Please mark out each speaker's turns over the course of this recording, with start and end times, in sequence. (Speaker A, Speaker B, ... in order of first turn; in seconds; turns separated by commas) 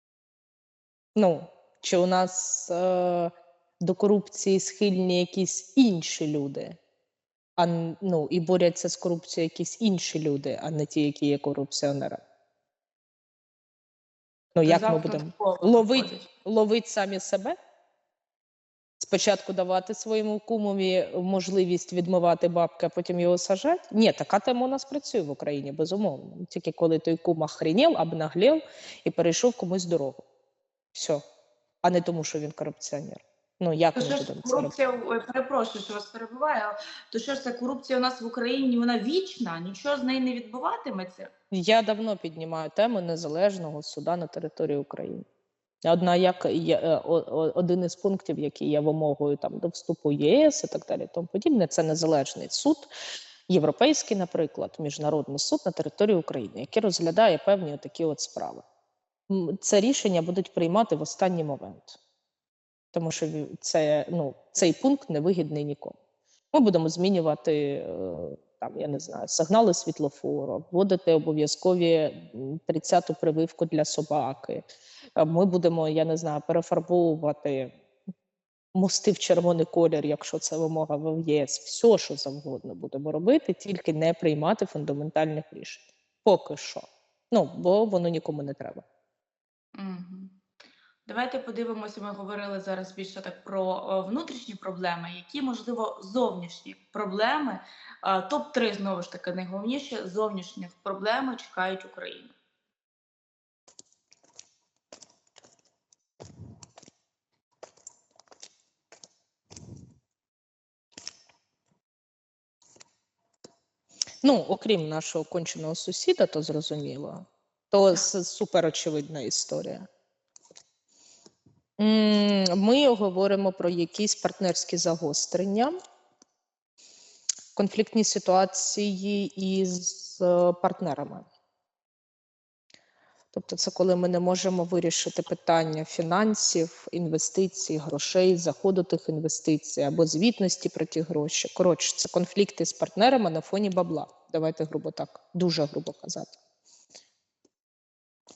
Speaker A: 1.1-3.3, Speaker A: 3.8-6.8, Speaker A: 7.6-12.2, Speaker A: 14.5-17.6, Speaker B: 14.7-16.3, Speaker A: 19.0-30.2, Speaker A: 30.9-31.2, Speaker A: 31.8-34.7, Speaker B: 34.0-41.3, Speaker A: 41.5-45.2, Speaker A: 45.8-52.9, Speaker A: 53.5-58.6, Speaker A: 59.3-62.0, Speaker A: 62.9-66.0, Speaker A: 66.5-74.6, Speaker A: 75.2-77.7, Speaker A: 78.7-88.8, Speaker B: 89.7-90.3, Speaker B: 91.0-102.3, Speaker A: 114.2-119.9, Speaker A: 121.8-125.7, Speaker A: 127.5-131.2, Speaker A: 133.3-146.3